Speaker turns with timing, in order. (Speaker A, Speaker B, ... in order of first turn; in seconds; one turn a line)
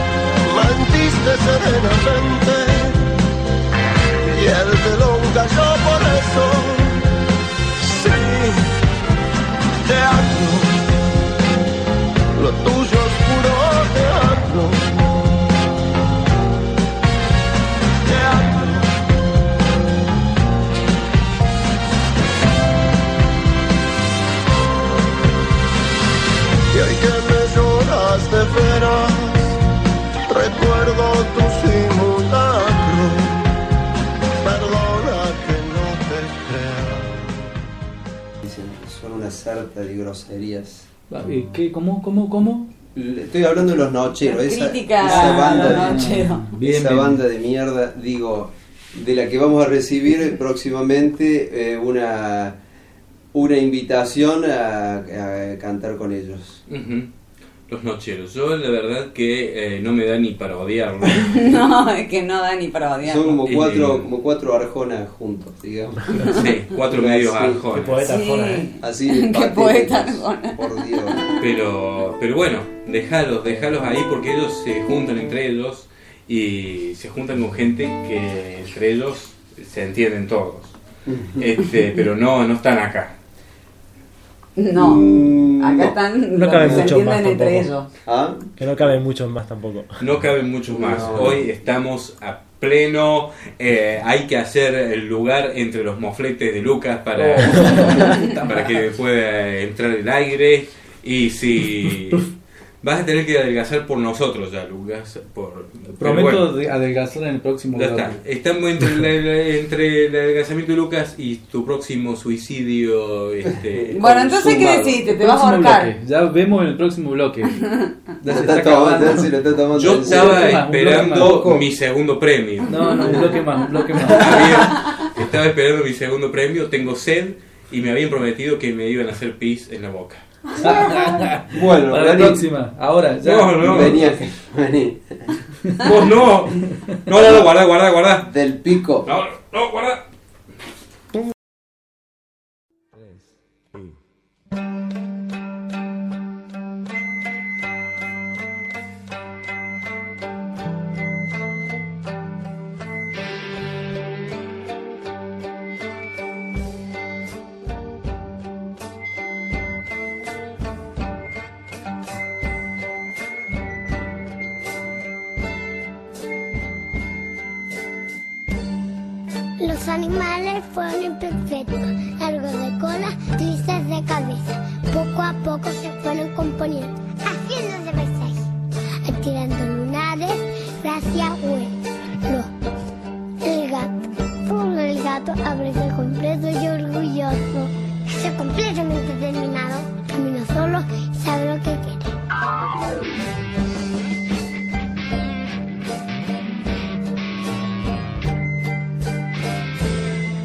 Speaker A: 0.4-3.1
Speaker A: 4.3-7.0
Speaker A: 7.8-8.7
Speaker A: 9.8-10.9
Speaker A: 12.3-15.2
Speaker A: 18.0-19.0
Speaker A: 26.7-29.6
Speaker A: 30.3-33.6
Speaker A: 34.4-37.5
Speaker B: 38.4-40.9
Speaker C: 41.1-42.7
Speaker B: 42.9-46.1
Speaker D: 44.2-46.5
Speaker C: 45.0-47.2
Speaker B: 46.6-52.5
Speaker B: 53.3-56.6
Speaker E: 56.7-57.1
Speaker E: 57.7-61.4
Speaker D: 61.3-63.3
Speaker B: 63.0-66.2
Speaker E: 63.4-64.1
Speaker E: 66.3-68.0
Speaker B: 66.9-67.7
Speaker F: 67.7-68.7
Speaker D: 68.0-70.6
Speaker B: 68.8-71.2
Speaker E: 71.4-80.7
Speaker B: 81.0-81.5
Speaker E: 81.4-83.1
Speaker D: 84.6-87.9
Speaker B: 84.7-86.0
Speaker F: 86.3-87.7
Speaker B: 86.6-87.0
Speaker B: 88.0-88.5
Speaker F: 88.6-90.0
Speaker E: 90.0-102.2
Speaker B: 90.7-91.4
Speaker C: 97.2-98.8
Speaker E: 102.8-106.5
Speaker C: 106.0-108.2
Speaker E: 107.7-114.1
Speaker D: 113.9-115.9
Speaker C: 114.3-117.5
Speaker B: 118.2-121.6
Speaker C: 118.2-119.3
Speaker E: 119.7-123.2
Speaker C: 120.1-121.5
Speaker C: 122.7-124.7
Speaker E: 124.1-130.2
Speaker C: 130.6-134.0
Speaker B: 131.5-132.4
Speaker E: 133.2-134.1
Speaker B: 133.6-135.3
Speaker E: 135.8-138.3
Speaker B: 138.2-139.1
Speaker E: 139.0-140.0
Speaker G: 169.6-178.5
Speaker G: 179.0-182.5
Speaker G: 183.4-192.1